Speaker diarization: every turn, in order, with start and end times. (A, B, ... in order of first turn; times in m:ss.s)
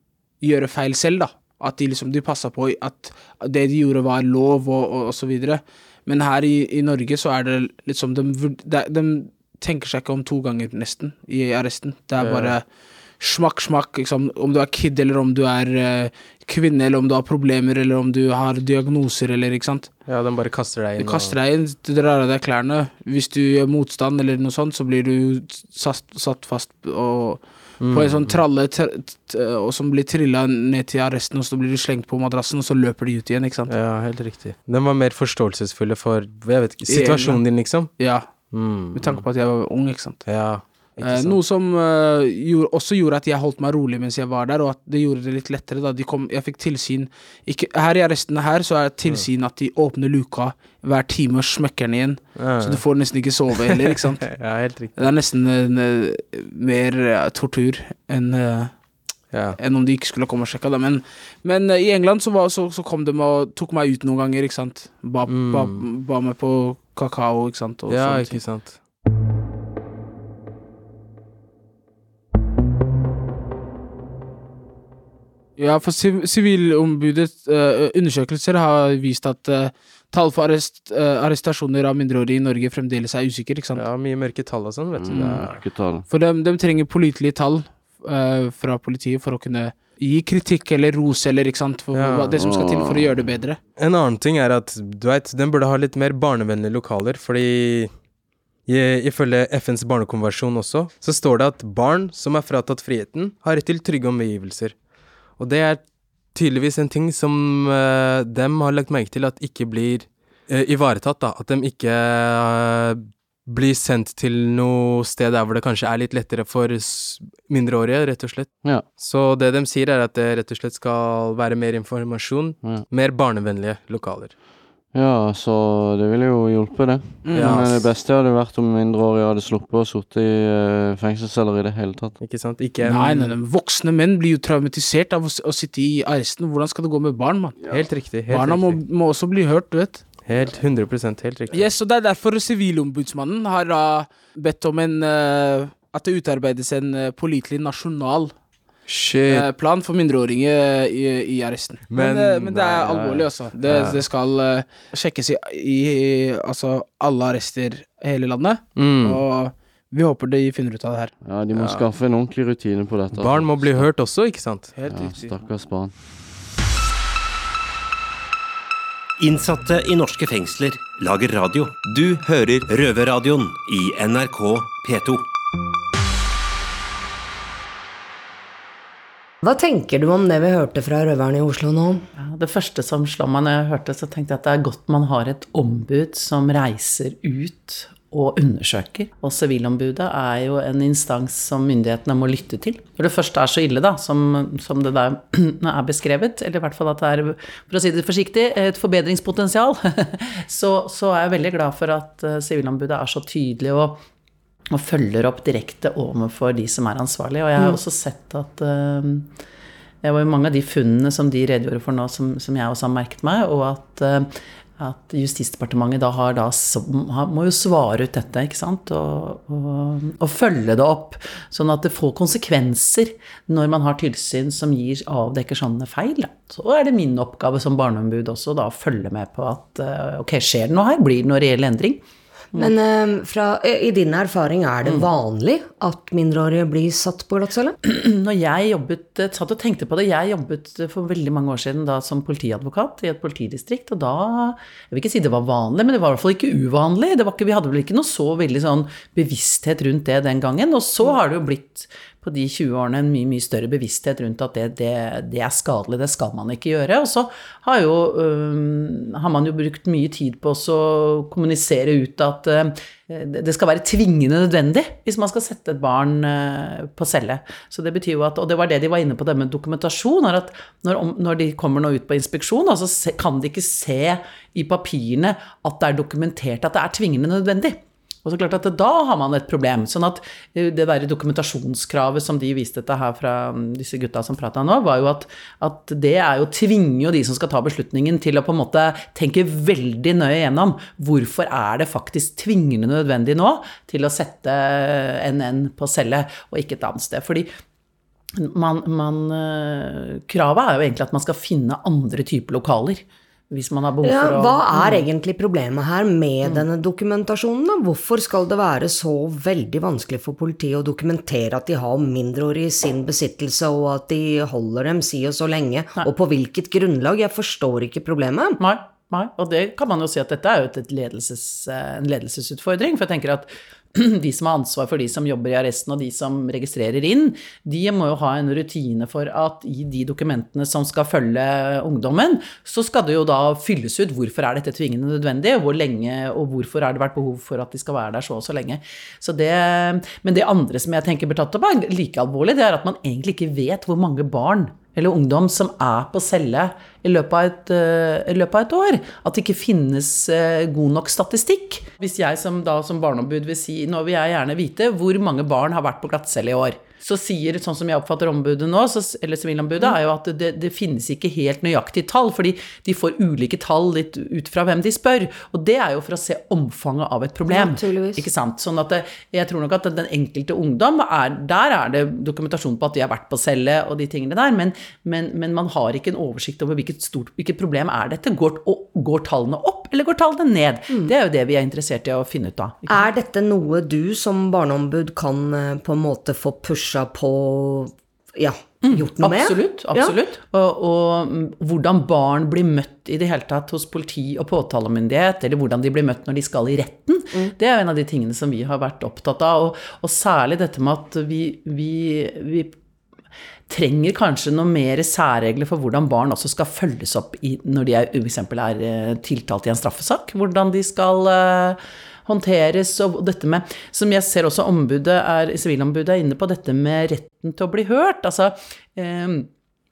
0:00.4-0:19.9 A
0:12.2-0:12.6 B
0:20.0-0:21.4 B
0:21.0-0:33.7 A
0:27.8-0:28.4 B
0:33.7-0:39.2 B
0:36.9-0:37.4 A
0:38.0-0:38.3 A
0:38.9-0:40.2 A
0:40.2-0:41.4 B
0:41.0-0:54.4 A
0:52.3-0:52.8 B
0:53.6-0:55.0 B
0:55.0-0:58.8 A
0:59.3-0:59.6 B
0:59.6-1:08.4 A
1:05.3-1:05.8 B
1:07.9-1:08.8 B
1:15.6-1:23.8 A
1:23.7-1:25.5 B
1:25.0-1:26.1 C
1:25.1-1:25.4 A
1:26.1-1:33.6 A
1:31.9-1:32.4 B
1:32.4-1:33.3 C
1:33.8-1:37.9 B
1:38.6-1:44.8 B
1:45.4-2:04.3 B
2:04.9-2:12.2 C
2:07.2-2:07.6 A
2:07.3-2:07.9 B
2:12.2-2:13.4 B
2:12.8-2:17.6 A
2:17.7-2:18.8 B
2:18.2-2:20.1 A
2:20.2-2:21.6 B
2:21.5-2:28.3 A
2:28.9-2:29.5 B
2:29.3-2:41.1 A
2:31.9-2:34.0 B
2:33.0-2:33.2 C
2:38.8-2:39.2 B
2:41.2-2:43.9 C
2:41.5-2:41.9 B
2:43.1-2:44.7 B
2:44.8-2:45.3 A
2:44.9-2:45.9 C
2:49.2-2:55.3 D
2:59.4-3:02.0 E
3:02.2-3:24.0 F
3:24.7-3:29.3 F
3:30.0-3:52.0 F
3:52.5-3:57.7 E
3:57.8-4:57.5 F
4:58.3-5:05.1 F
5:04.0-5:18.6 E
5:18.6-6:23.1 F
6:07.5-6:08.3 E
6:22.9-6:30.1 E
6:28.8-6:42.8 F
6:43.7-6:59.5 F